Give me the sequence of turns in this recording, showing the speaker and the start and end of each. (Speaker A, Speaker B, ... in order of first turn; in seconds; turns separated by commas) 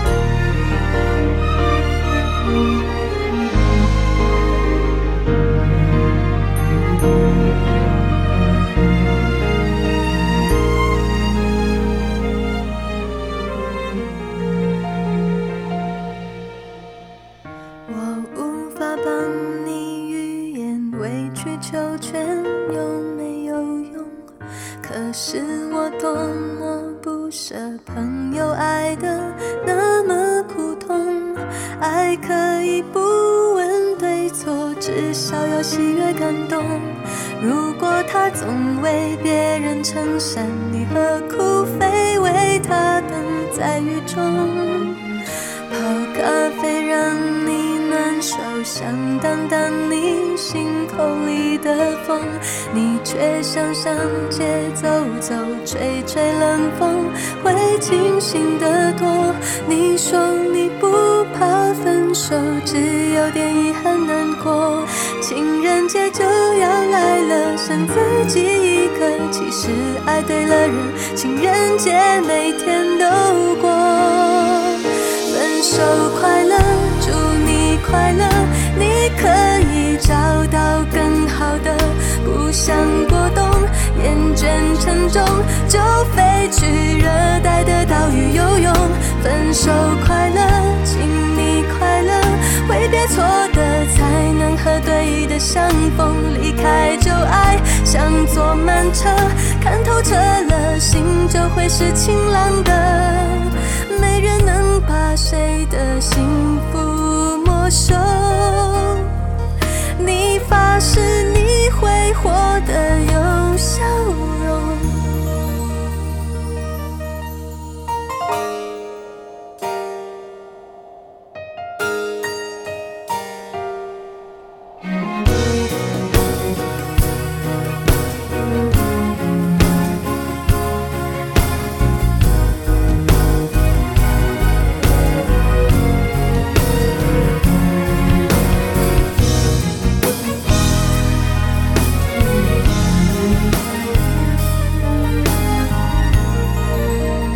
Speaker A: 17.9-109.1, Speaker A: 110.0-115.1